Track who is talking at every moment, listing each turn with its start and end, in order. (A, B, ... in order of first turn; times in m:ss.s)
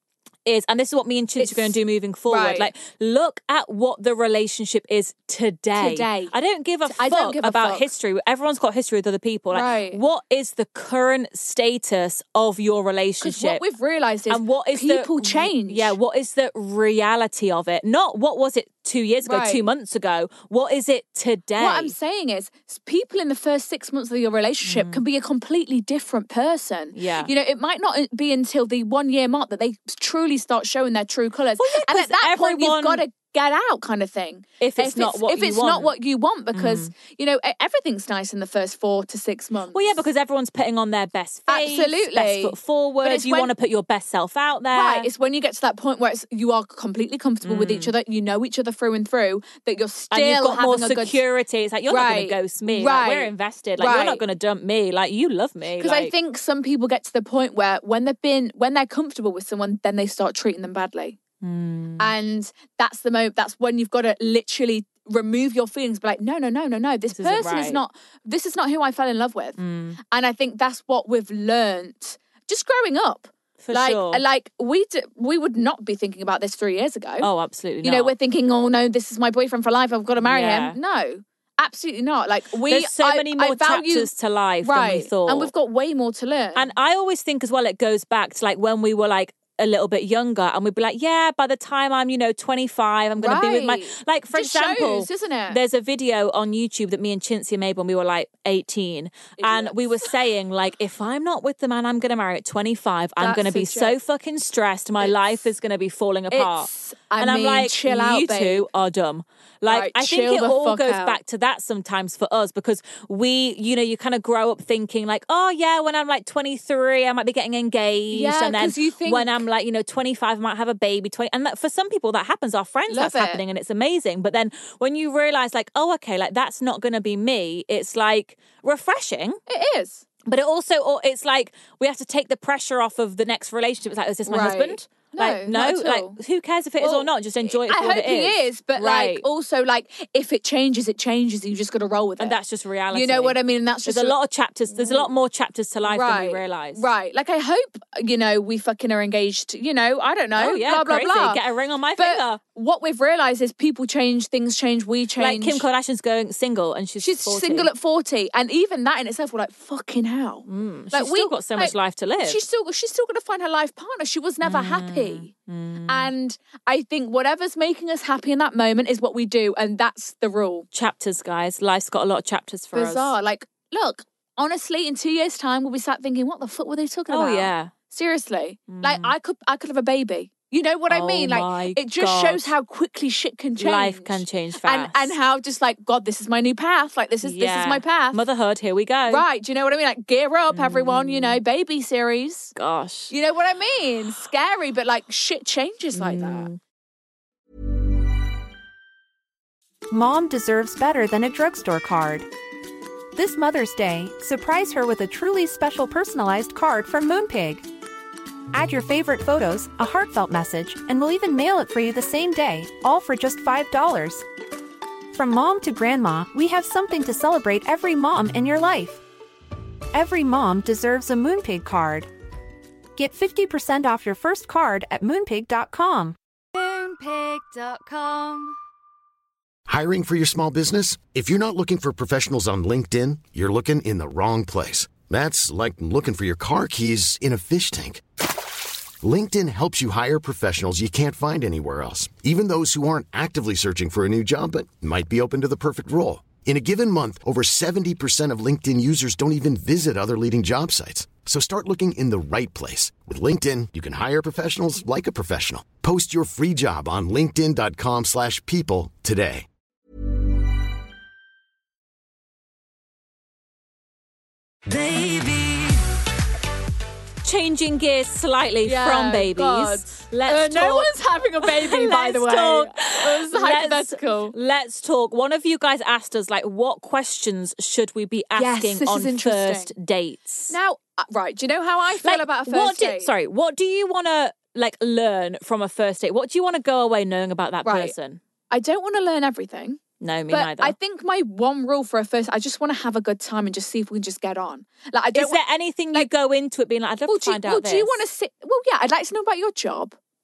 0:00.4-0:13.6 A
0:01.4-0:01.8 B
0:02.3-0:02.7 B
0:05.8-0:06.3 B
0:06.9-0:07.9 B
0:09.5-0:10.0 B
0:13.2-0:16.0 B
0:14.3-0:21.9 A
0:19.2-0:19.6 B
0:21.6-0:40.0 B
0:24.6-0:25.0 A
0:26.9-0:27.3 A
0:31.6-0:33.0 A
0:34.6-0:35.9 A
0:36.5-0:36.9 A
0:39.7-0:45.1 A
0:41.5-0:43.5 B
0:44.7-0:51.2 B
0:47.4-0:47.9 A
0:50.1-0:56.1 A
0:51.9-0:54.2 B
0:55.8-1:01.2 B
1:01.4-1:02.1 A
1:02.0-1:09.6 B
1:07.2-1:07.8 A
1:09.6-1:10.0 A
1:10.1-1:17.3 B
1:13.6-1:14.2 A
1:17.2-1:18.1 A
1:17.8-1:24.1 B
1:20.2-1:20.8 A
1:22.6-1:25.5 A
1:24.6-1:26.7 B
1:26.5-2:09.4 A
1:33.2-1:35.6 B
1:39.4-1:40.1 B
1:43.2-1:43.9 B
1:45.0-1:45.3 B
1:46.3-1:48.6 B
1:49.6-1:51.2 B
1:58.1-1:59.4 B
2:02.9-2:03.4 B
2:09.5-2:10.0 B
2:10.2-2:19.2 A
2:14.3-2:16.2 B
2:16.8-2:22.4 B
2:22.2-2:26.8 A
2:22.9-2:24.2 B
2:24.7-2:25.1 B
2:25.8-2:31.4 B
2:30.4-2:32.4 A
2:32.0-2:35.6 B
2:35.2-2:37.7 A
2:37.0-2:45.3 B
2:40.5-2:42.4 A
2:44.4-2:46.1 A
2:45.9-2:50.6 B
2:50.7-2:53.1 A
2:52.7-3:08.2 B
2:57.1-2:57.7 A
2:58.7-2:59.1 A
3:00.9-3:02.5 A
3:03.6-3:05.2 A
3:07.2-3:09.2 A
3:09.1-3:12.5 B
3:10.5-3:11.4 A
3:12.6-3:13.1 A
3:13.1-3:16.5 B
3:15.9-3:16.6 A
3:19.9-3:22.3 C
3:23.1-3:27.6 C
3:28.5-3:34.2 C
3:35.1-3:39.0 C
3:39.9-3:42.1 C
3:43.0-3:46.2 C
3:46.5-3:48.6 D
3:49.7-3:58.0 E
3:59.0-4:19.5 E
4:24.7-4:25.7 A
4:27.2-4:40.6 A
4:28.6-4:34.3 B
4:38.4-4:39.7 B
4:40.5-4:43.1 B
4:42.0-4:48.2 A
4:47.6-4:47.9 B
4:48.5-4:55.4 B
4:50.0-4:50.7 A
4:55.1-4:58.0 A
4:57.1-5:00.0 B